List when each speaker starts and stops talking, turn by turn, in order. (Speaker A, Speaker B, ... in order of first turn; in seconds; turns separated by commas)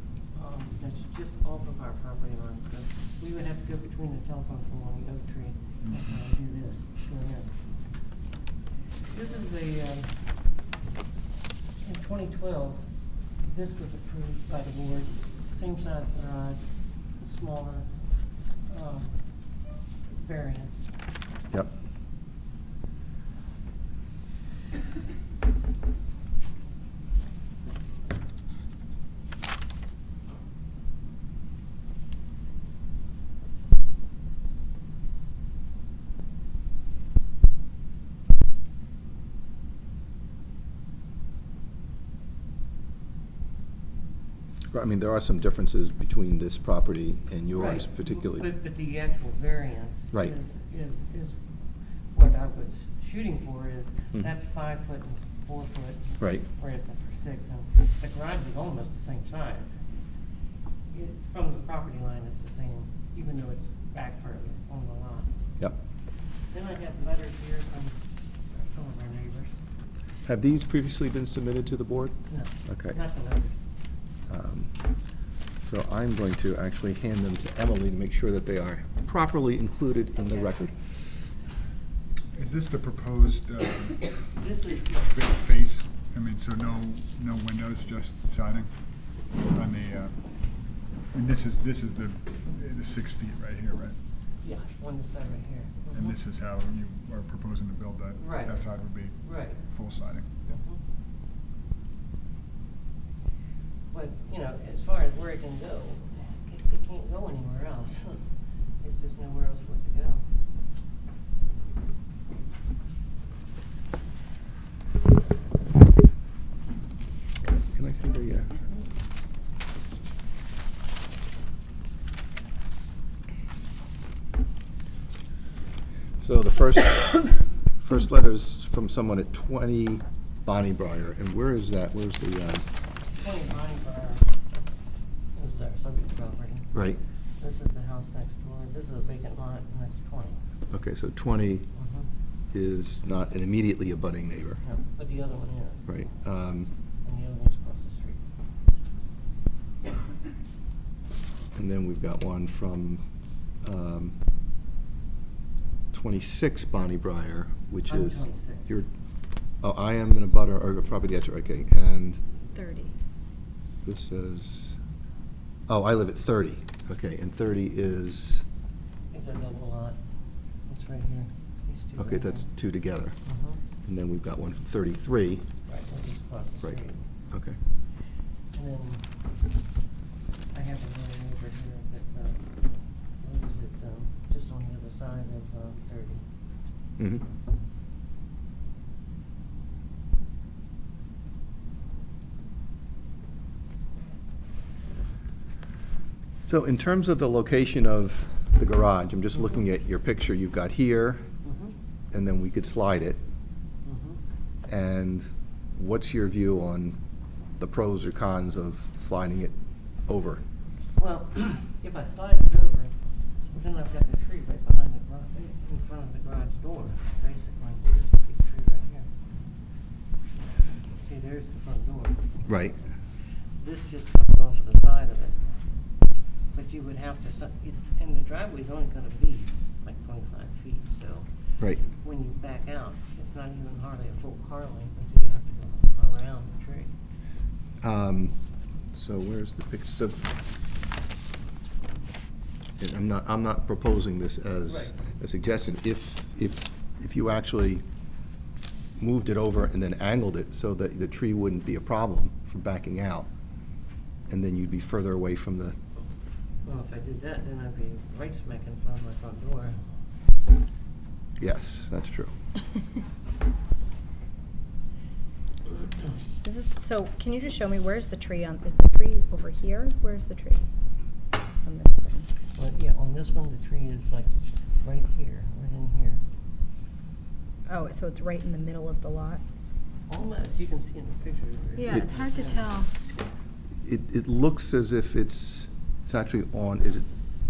Speaker A: 0.3-7.5, Speaker A: 9.1-10.1, Speaker A: 11.8-12.8, Speaker A: 13.4-16.6, Speaker A: 17.2-17.9, Speaker A: 18.7-19.1, Speaker A: 20.1-20.9, Speaker B: 44.7-48.5, Speaker A: 47.5-51.4, Speaker A: 52.1-60.0, Speaker B: 56.2-56.5, Speaker A: 60.9-65.3, Speaker A: 66.5-69.6, Speaker B: 70.2-73.0, Speaker A: 72.3-73.6, Speaker B: 74.3-74.8, Speaker B: 75.6-80.8, Speaker C: 82.3-84.1, Speaker A: 83.9-85.2, Speaker C: 85.0-88.7, Speaker C: 89.5-90.1, Speaker C: 91.1-94.0, Speaker A: 94.4-96.2, Speaker C: 95.9-100.6, Speaker A: 98.2-98.6, Speaker A: 99.2-99.6, Speaker A: 100.5-100.8, Speaker A: 103.9-108.2, Speaker A: 108.8-110.2, Speaker B: 117.6-118.7, Speaker B: 126.2-132.7, Speaker A: 133.1-134.3, Speaker A: 135.3-136.7, Speaker B: 136.7-137.0, Speaker A: 137.4-140.4, Speaker B: 140.7-141.7, Speaker A: 141.8-142.1, Speaker B: 142.5-144.6, Speaker A: 144.6-145.9, Speaker B: 145.9-146.7, Speaker A: 147.0-148.2, Speaker B: 151.5-153.0, Speaker B: 153.6-154.1, Speaker B: 155.9-158.9, Speaker A: 157.9-158.7, Speaker B: 159.6-162.2, Speaker D: 162.5-162.9, Speaker B: 163.8-164.8, Speaker B: 165.7-168.4, Speaker A: 169.1-170.0, Speaker A: 170.7-172.5, Speaker B: 172.0-173.2, Speaker A: 173.2-173.6, Speaker B: 173.8-175.5, Speaker A: 175.7-177.0, Speaker B: 177.3-177.6, Speaker A: 178.5-179.1, Speaker A: 180.5-182.4, Speaker A: 183.2-186.2, Speaker B: 187.0-187.2, Speaker B: 196.4-201.2, Speaker A: 201.4-201.7, Speaker B: 202.1-203.2, Speaker A: 203.8-204.2, Speaker B: 204.7-207.0, Speaker B: 207.6-209.5, Speaker B: 210.1-210.4, Speaker A: 211.0-212.9, Speaker A: 213.5-219.1, Speaker A: 220.9-222.2, Speaker B: 222.4-222.8, Speaker A: 223.6-225.4, Speaker A: 226.5-236.9, Speaker B: 237.8-238.3, Speaker B: 238.9-240.3, Speaker B: 242.8-247.8, Speaker A: 244.7-244.9, Speaker B: 249.0-253.3, Speaker B: 254.3-255.8, Speaker A: 256.6-259.8, Speaker B: 261.4-262.3, Speaker D: 266.4-270.7, Speaker D: 271.6-272.3, Speaker A: 272.6-276.2, Speaker D: 277.7-279.4, Speaker A: 280.1-282.9, Speaker D: 281.8-282.9, Speaker B: 283.8-287.1